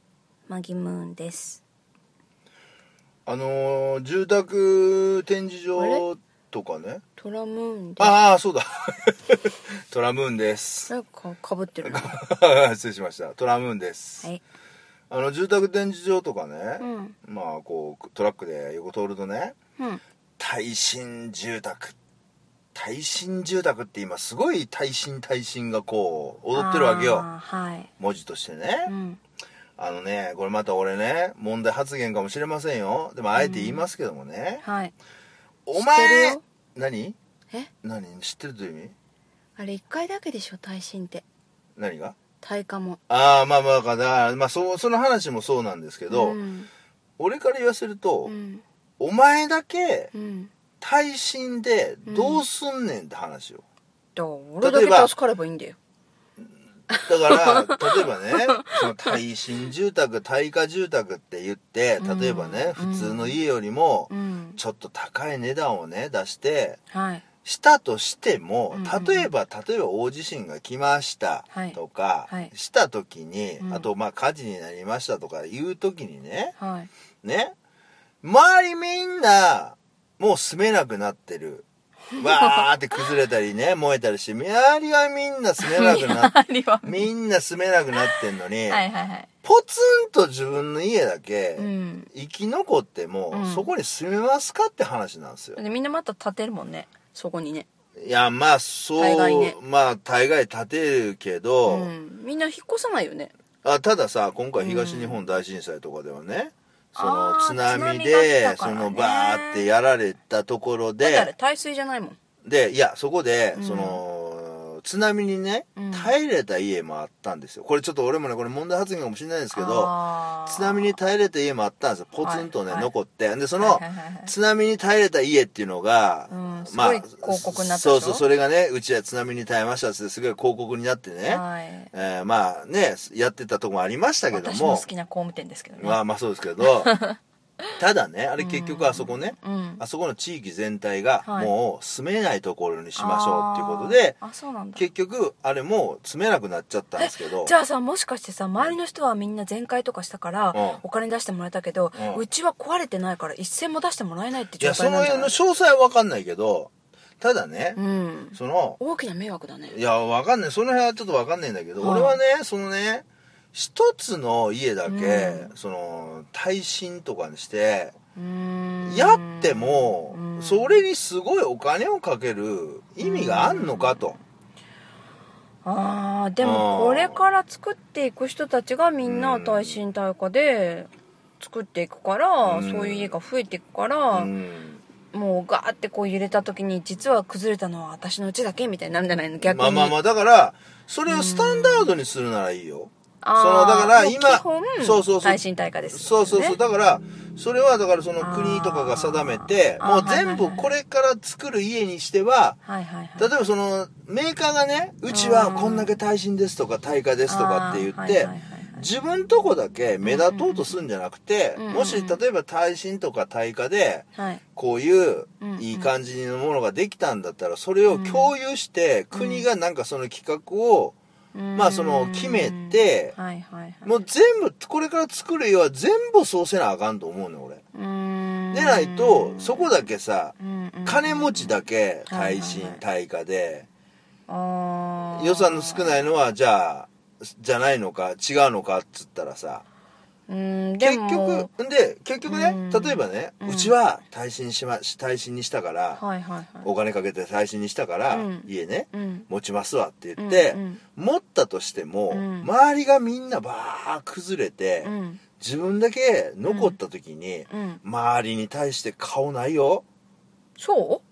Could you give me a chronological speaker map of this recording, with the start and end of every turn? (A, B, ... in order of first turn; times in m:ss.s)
0:00.5-0:01.6 A
0:03.2-0:07.0 B
0:05.8-0:06.0 A
0:07.2-0:08.2 A
0:08.0-0:10.9 B
0:10.9-0:12.1 A
0:11.8-0:14.3 B
0:15.1-0:19.6 B
0:16.8-0:17.2 A
0:20.4-0:22.0 B
0:22.7-0:27.3 B
0:26.5-0:27.9 A
0:28.0-0:28.9 B
0:28.8-0:29.2 A
0:29.8-0:34.6 B
0:33.4-0:33.8 A
0:34.6-0:34.9 A
0:35.7-0:37.2 B
0:35.7-0:36.4 A
0:37.8-0:38.9 B
0:39.6-0:41.2 A
0:41.8-0:42.2 B
0:42.4-0:43.0 A
0:43.1-0:46.4 B
0:46.1-0:46.7 A
0:47.2-0:48.3 B
0:48.2-0:48.6 A
0:49.0-0:50.1 B
0:50.1-0:50.5 A
0:50.8-0:53.6 B
0:52.1-0:52.4 A
0:54.2-0:55.8 A
0:54.6-0:55.1 B
0:56.9-0:59.2 A
0:57.0-1:06.8 B
1:02.0-1:03.4 A
1:04.1-1:04.6 A
1:06.9-1:07.2 A
1:07.4-1:16.5 B
1:08.7-1:09.3 A
1:11.5-1:11.8 A
1:13.6-1:13.9 A
1:16.6-1:16.9 A
1:17.2-1:17.5 B
1:18.2-1:21.6 B
1:22.1-1:23.0 A
1:22.2-1:28.8 B
1:25.6-1:27.1 A
1:27.9-1:29.3 A
1:29.4-1:35.6 B
1:31.6-1:32.1 A
1:33.3-1:33.7 A
1:35.6-1:37.7 A
1:38.0-1:41.9 B
1:39.0-1:39.6 A
1:41.6-1:43.3 A
1:43.6-1:51.3 B
1:44.6-1:45.2 A
1:46.9-1:49.7 A
1:51.0-1:52.2 A
1:52.4-2:14.9 B
1:53.5-1:54.0 A
1:55.7-1:56.1 A
1:59.5-2:01.0 A
2:02.2-2:02.9 A
2:03.6-2:04.3 A
2:06.3-2:08.2 A
2:11.2-2:11.9 A
2:14.3-2:16.0 A
2:15.8-2:16.9 B
2:16.6-2:17.2 A
2:17.8-2:24.2 B
2:18.4-2:19.8 A
2:21.2-2:21.5 A
2:23.0-2:24.8 A
2:24.7-2:27.5 B
2:27.0-2:35.3 A
2:30.5-2:30.8 B
2:31.9-2:32.2 B
2:34.6-2:37.8 B
2:37.8-2:39.8 A
2:38.3-2:38.8 B
2:39.7-2:47.9 B
2:41.8-2:42.2 A
2:44.8-2:45.5 A
2:48.1-2:50.8 A
2:48.8-2:54.2 B
2:53.0-2:54.2 A
2:55.6-3:04.3 A
2:56.4-2:57.2 B
2:59.0-2:59.8 B
3:02.4-3:03.1 B
3:04.1-3:04.8 B
3:05.1-3:10.0 A
3:09.4-3:15.4 B
3:11.0-3:11.9 A
3:13.2-3:16.6 A
3:15.9-3:22.6 B
3:18.2-3:20.7 A
3:22.6-3:23.3 A
3:23.2-3:40.9 B
3:25.1-3:25.9 A
3:27.3-3:28.8 A
3:30.0-3:30.8 A
3:31.6-3:32.2 A
3:34.1-3:34.4 A
3:35.4-3:35.9 A
3:37.9-3:38.3 A
3:39.1-3:39.4 A
3:41.3-3:43.9 A
3:41.5-3:43.1 B
3:43.8-3:47.6 B
3:47.7-3:49.7 A
3:48.5-3:53.7 B
3:50.4-3:52.8 A
3:54.3-3:56.1 A
3:55.1-3:59.6 B
4:00.3-4:01.5 A
4:00.8-4:06.0 B
4:02.2-4:03.7 A
4:05.9-4:06.7 A
4:06.6-4:19.8 B
4:08.1-4:09.3 A
4:10.2-4:10.8 A
4:12.1-4:12.5 A
4:14.8-4:15.2 A
4:16.4-4:16.8 A
4:17.5-4:17.8 A
4:20.6-4:21.0 A